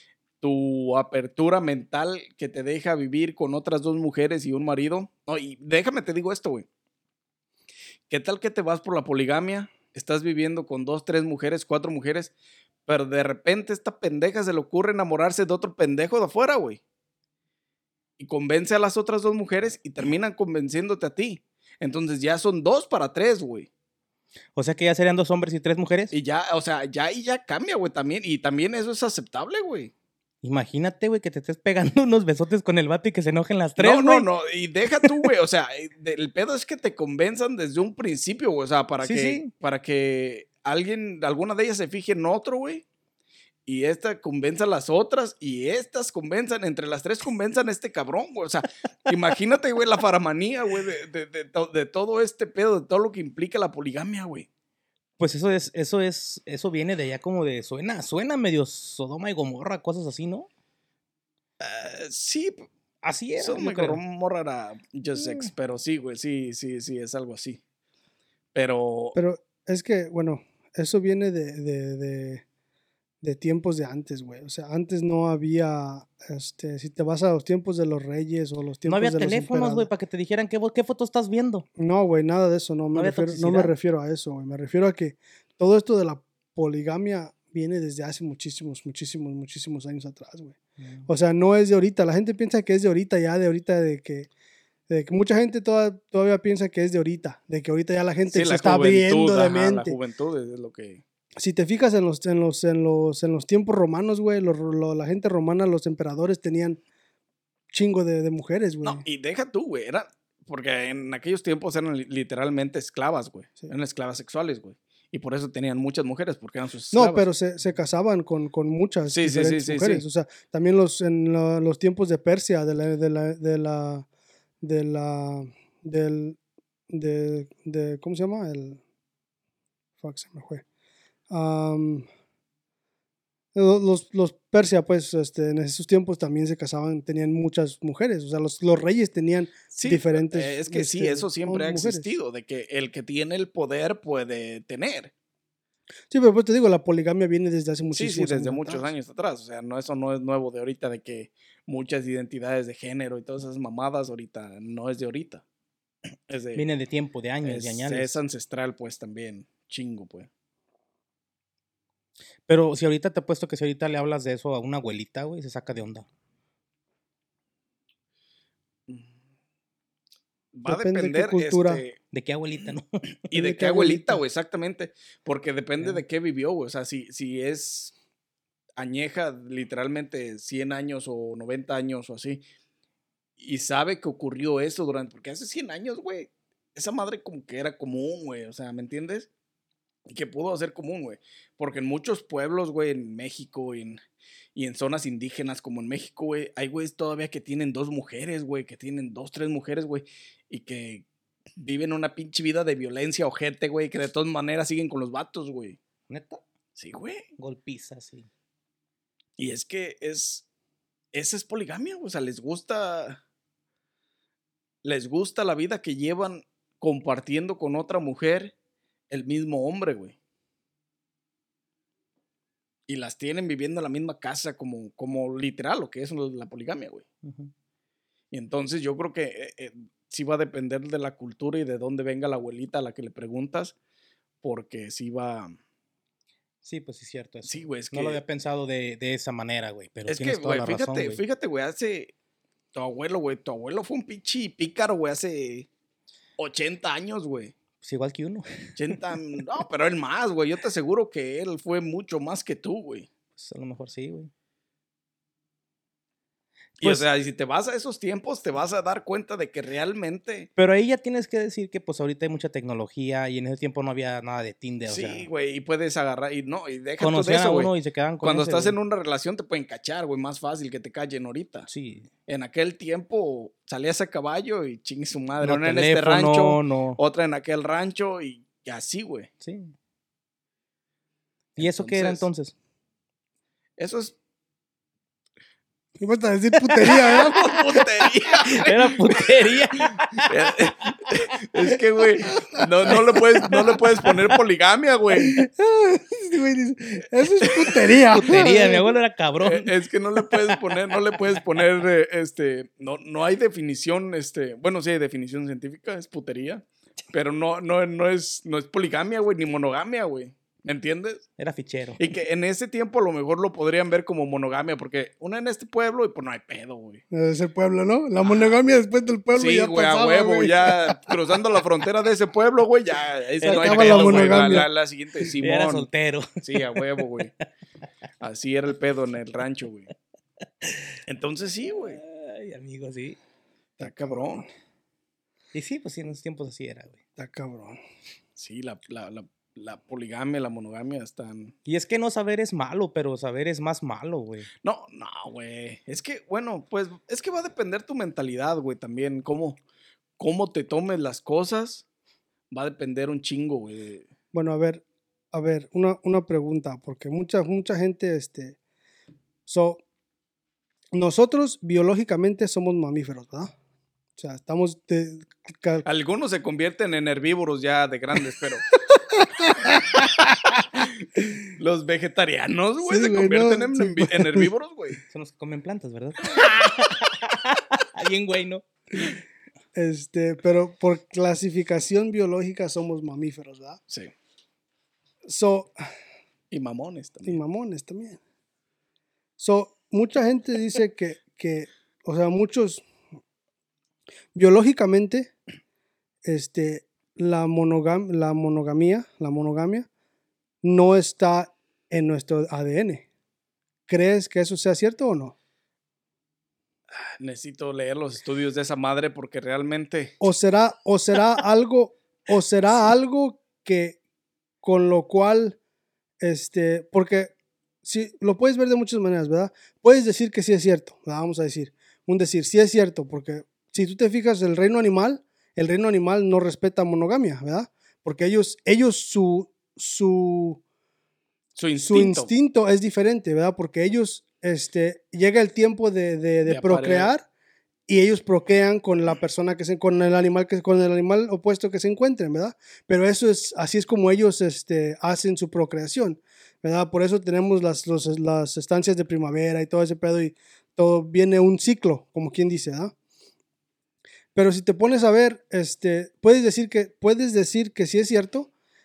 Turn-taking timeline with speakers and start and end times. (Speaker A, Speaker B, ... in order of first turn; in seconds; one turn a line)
Speaker A: 0.4-6.7
Speaker A: 8.1-12.3
Speaker A: 12.9-16.8
Speaker A: 18.2-23.7
Speaker B: 24.6-26.1
Speaker A: 26.1-29.9
Speaker B: 30.4-34.3
Speaker A: 33.8-42.9
Speaker B: 39.0-39.5
Speaker A: 43.7-54.5
Speaker B: 55.2-60.5
Speaker A: 61.6-62.7
Speaker B: 63.0-64.0
Speaker A: 63.4-67.6
Speaker B: 65.2-65.5
Speaker A: 68.5-69.2
Speaker C: 69.2-72.4
Speaker C: 73.2-79.9
Speaker B: 78.9-81.7
Speaker C: 81.8-94.3
Speaker B: 83.0-83.7
Speaker B: 90.8-91.1
Speaker C: 94.9-100.0
Speaker A: 98.3-101.0
Speaker C: 101.4-106.8
Speaker C: 107.7-109.0
Speaker A: 108.8-117.3
Speaker C: 116.9-124.1
Speaker A: 119.1-120.0
Speaker C: 124.6-126.4
Speaker C: 126.9-128.8
Speaker C: 130.0-130.6
Speaker C: 131.3-132.1
Speaker C: 133.6-142.1
Speaker A: 139.7-145.1
Speaker C: 146.1-148.9
Speaker A: 147.9-155.4
Speaker A: 156.3-156.7
Speaker B: 156.6-158.2
Speaker A: 157.4-160.3
Speaker B: 162.5-166.1
Speaker A: 170.5-172.0
Speaker C: 170.7-171.8
Speaker B: 172.1-173.0
Speaker A: 173.3-177.9
Speaker C: 173.3-174.2
Speaker A: 178.8-182.4
Speaker A: 183.4-189.3
Speaker A: 190.1-194.0
Speaker A: 194.6-201.1
Speaker A: 201.6-205.8
Speaker B: 206.1-206.4
Speaker A: 206.8-207.2
Speaker B: 207.4-208.3
Speaker A: 209.4-210.4
Speaker A: 211.1-213.2
Speaker A: 214.8-218.6
Speaker A: 219.1-220.2
Speaker A: 222.9-227.1
Speaker B: 227.2-227.5
Speaker A: 228.3-233.8
Speaker A: 234.4-235.6
Speaker B: 236.6-241.2
Speaker A: 237.5-238.2
Speaker A: 240.1-242.1
Speaker A: 242.7-245.7
Speaker A: 246.4-247.5
Speaker B: 247.8-249.0
Speaker A: 248.8-253.1
Speaker B: 253.4-254.3
Speaker A: 256.8-260.5
Speaker B: 260.6-265.3
Speaker A: 264.9-271.7
Speaker B: 267.0-268.8
Speaker B: 271.7-272.1
Speaker A: 272.3-279.3
Speaker B: 275.4-277.0
Speaker B: 279.4-279.7
Speaker B: 281.6-282.5
Speaker A: 281.6-282.3
Speaker A: 283.8-284.2
Speaker C: 286.0-287.8
Speaker A: 286.8-295.4
Speaker B: 288.5-290.3
Speaker C: 295.2-298.9
Speaker A: 297.4-298.5
Speaker B: 298.1-301.6
Speaker A: 299.4-311.2
Speaker B: 311.4-312.0
Speaker A: 312.0-317.0
Speaker C: 317.1-321.0
Speaker A: 319.4-325.9
Speaker B: 323.4-324.7
Speaker C: 323.4-324.7
Speaker B: 325.4-327.1
Speaker A: 326.4-327.3
Speaker A: 328.2-329.9
Speaker B: 330.6-330.9
Speaker A: 331.1-332.0
Speaker B: 331.9-333.2
Speaker C: 333.8-334.4
Speaker A: 333.8-334.5
Speaker B: 335.5-337.0
Speaker C: 337.2-337.8
Speaker A: 338.4-341.5
Speaker B: 341.7-344.5
Speaker A: 344.6-349.6
Speaker A: 350.2-351.9
Speaker A: 352.5-354.1
Speaker C: 354.3-354.8
Speaker C: 355.3-358.6
Speaker C: 359.5-359.8
Speaker C: 360.9-363.5
Speaker C: 364.2-365.8
Speaker A: 365.8-368.7
Speaker C: 369.1-369.9
Speaker A: 369.6-375.0
Speaker C: 372.8-374.5
Speaker B: 375.1-379.2
Speaker C: 379.8-383.8
Speaker C: 385.3-385.8
Speaker A: 386.5-387.4
Speaker C: 387.2-388.2
Speaker C: 389.4-392.8
Speaker C: 394.4-395.3
Speaker C: 396.2-399.9
Speaker C: 400.6-403.1
Speaker C: 403.9-405.4
Speaker A: 407.0-410.2
Speaker C: 410.2-414.0
Speaker C: 414.6-415.6
Speaker C: 416.2-417.3
Speaker C: 417.9-430.6
Speaker A: 431.6-432.3
Speaker C: 431.8-437.2
Speaker A: 436.5-437.1
Speaker C: 437.9-452.9
Speaker C: 454.4-458.5